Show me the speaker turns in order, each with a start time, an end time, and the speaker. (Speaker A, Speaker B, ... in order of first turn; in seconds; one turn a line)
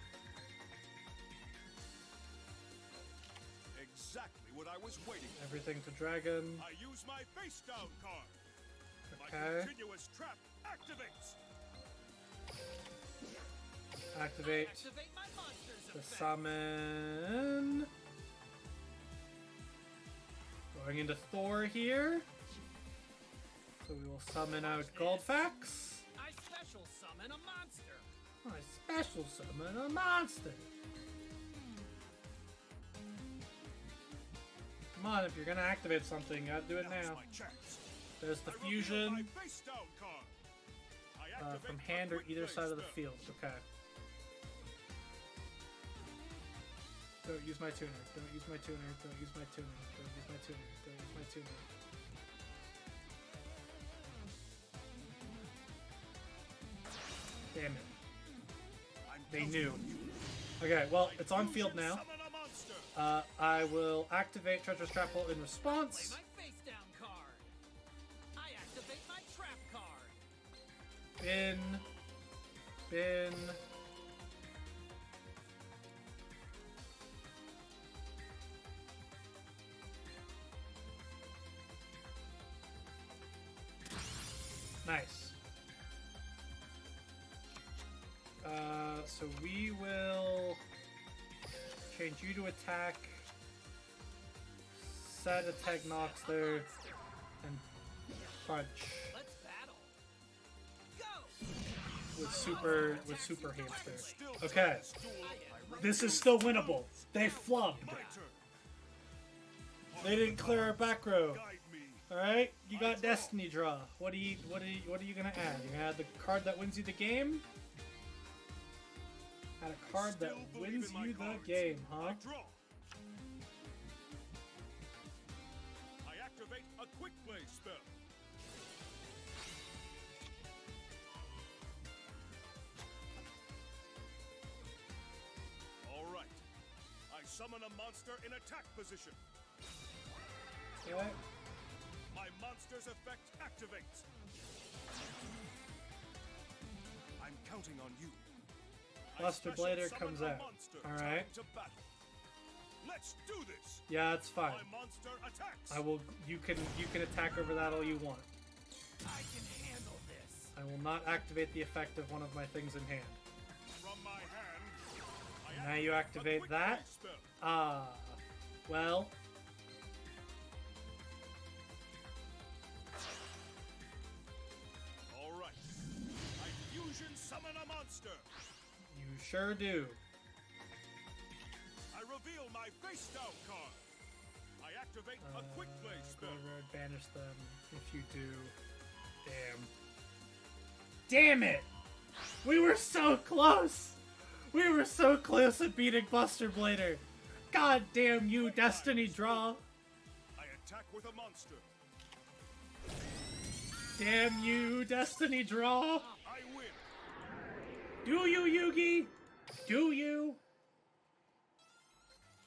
Speaker A: 3.7-5.4
Speaker B: 5.3-6.7
Speaker A: 6.6-8.4
Speaker B: 9.1-9.7
Speaker A: 9.2-11.4
Speaker B: 14.1-14.9
Speaker C: 14.4-16.4
Speaker B: 15.9-17.9
Speaker B: 20.7-22.3
Speaker B: 23.8-26.1
Speaker C: 24.6-25.5
Speaker C: 26.1-28.1
Speaker B: 28.4-30.7
Speaker B: 35.0-37.2
Speaker A: 36.7-37.8
Speaker B: 38.2-39.3
Speaker A: 38.4-40.4
Speaker A: 41.1-43.1
Speaker B: 41.4-43.6
Speaker B: 47.2-51.7
Speaker B: 57.5-57.9
Speaker A: 59.1-60.2
Speaker B: 59.3-59.9
Speaker B: 60.6-62.0
Speaker A: 60.9-62.9
Speaker B: 62.9-66.2
Speaker C: 65.6-67.5
Speaker C: 68.3-70.2
Speaker B: 71.2-71.9
Speaker B: 72.9-73.6
Speaker B: 84.8-85.4
Speaker B: 88.4-90.6
Speaker B: 91.9-93.3
Speaker B: 94.7-96.7
Speaker C: 95.5-97.1
Speaker B: 97.4-97.7
Speaker B: 98.4-99.2
Speaker C: 99.1-100.0
Speaker C: 100.9-101.4
Speaker C: 102.1-104.4
Speaker B: 102.1-104.9
Speaker A: 102.3-107.0
Speaker C: 105.2-108.2
Speaker B: 105.8-108.0
Speaker A: 107.8-108.5
Speaker A: 109.9-112.1
Speaker B: 110.0-111.5
Speaker B: 112.1-117.5
Speaker A: 112.7-113.4
Speaker B: 119.6-122.2
Speaker A: 119.8-122.6
Speaker A: 126.0-127.9
Speaker A: 135.8-136.4
Speaker A: 137.1-139.2
Speaker B: 140.8-141.2
Speaker A: 142.1-144.1
Speaker A: 147.2-148.3
Speaker A: 149.1-151.9
Speaker B: 149.2-151.3
Speaker A: 152.8-153.8
Speaker B: 153.9-154.7
Speaker A: 154.4-155.8
Speaker B: 155.7-158.3
Speaker C: 159.0-160.5
Speaker B: 160.5-163.2
Speaker A: 163.8-167.3
Speaker B: 165.5-166.9
Speaker B: 167.4-169.2
Speaker A: 175.1-175.7
Speaker A: 176.4-178.3
Speaker B: 178.9-180.0
Speaker A: 181.9-183.9
Speaker A: 184.6-186.5
Speaker B: 185.2-188.6
Speaker B: 189.2-189.7
Speaker B: 191.1-191.7
Speaker B: 192.4-199.6
Speaker A: 198.1-199.7
Speaker A: 200.4-201.7
Speaker B: 204.0-206.1
Speaker A: 206.2-206.8
Speaker B: 208.1-209.1
Speaker B: 209.7-210.4